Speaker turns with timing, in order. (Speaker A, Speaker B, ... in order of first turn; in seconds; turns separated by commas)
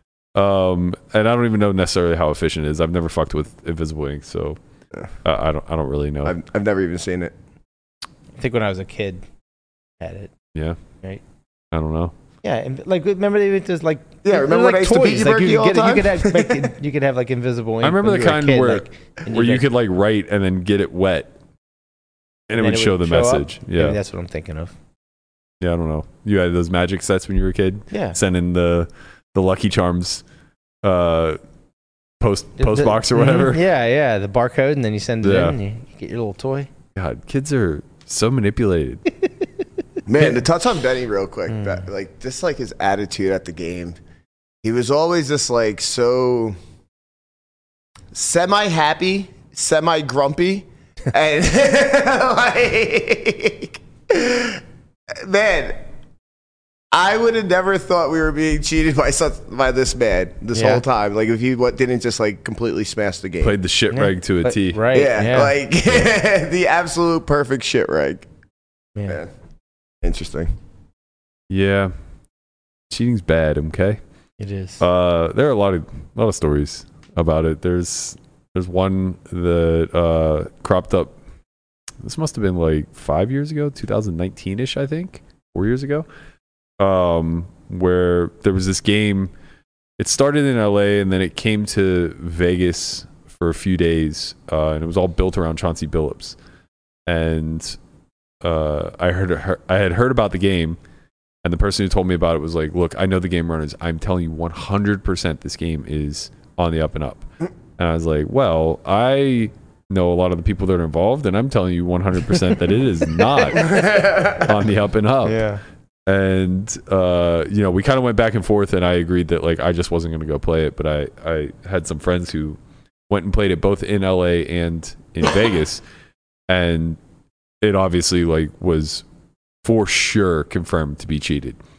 Speaker A: 0.3-4.6, Speaker A: 5.2-6.4, Speaker B: 6.2-7.3, Speaker C: 8.4-9.2, Speaker C: 10.0-10.3, Speaker A: 11.7-12.1, Speaker C: 12.4-19.6, Speaker B: 14.2-16.7, Speaker A: 17.8-21.3, Speaker A: 22.5-24.0, Speaker C: 22.6-24.7, Speaker A: 25.6-30.2, Speaker C: 27.9-28.2, Speaker A: 30.8-31.4, Speaker A: 32.2-33.6, Speaker C: 32.6-36.7, Speaker A: 35.2-35.6, Speaker A: 37.0-39.1, Speaker B: 40.1-44.0, Speaker C: 41.5-41.8, Speaker B: 44.6-46.6, Speaker B: 48.1-55.9, Speaker B: 56.9-63.6, Speaker C: 60.5-60.8, Speaker A: 63.4-64.8, Speaker C: 63.9-65.5, Speaker B: 64.9-68.3, Speaker B: 70.0-70.5, Speaker A: 71.5-71.9, Speaker A: 72.9-74.0, Speaker C: 74.4-74.8, Speaker A: 74.8-81.1, Speaker A: 82.0-86.1, Speaker A: 86.8-89.3, Speaker A: 90.0-96.4, Speaker A: 97.1-97.8, Speaker A: 98.4-100.8, Speaker A: 101.4-107.2, Speaker A: 107.8-115.4, Speaker B: 113.6-114.5, Speaker C: 115.2-115.6, Speaker A: 116.1-125.8, Speaker A: 126.5-127.0, Speaker A: 127.6-129.0, Speaker A: 129.6-131.6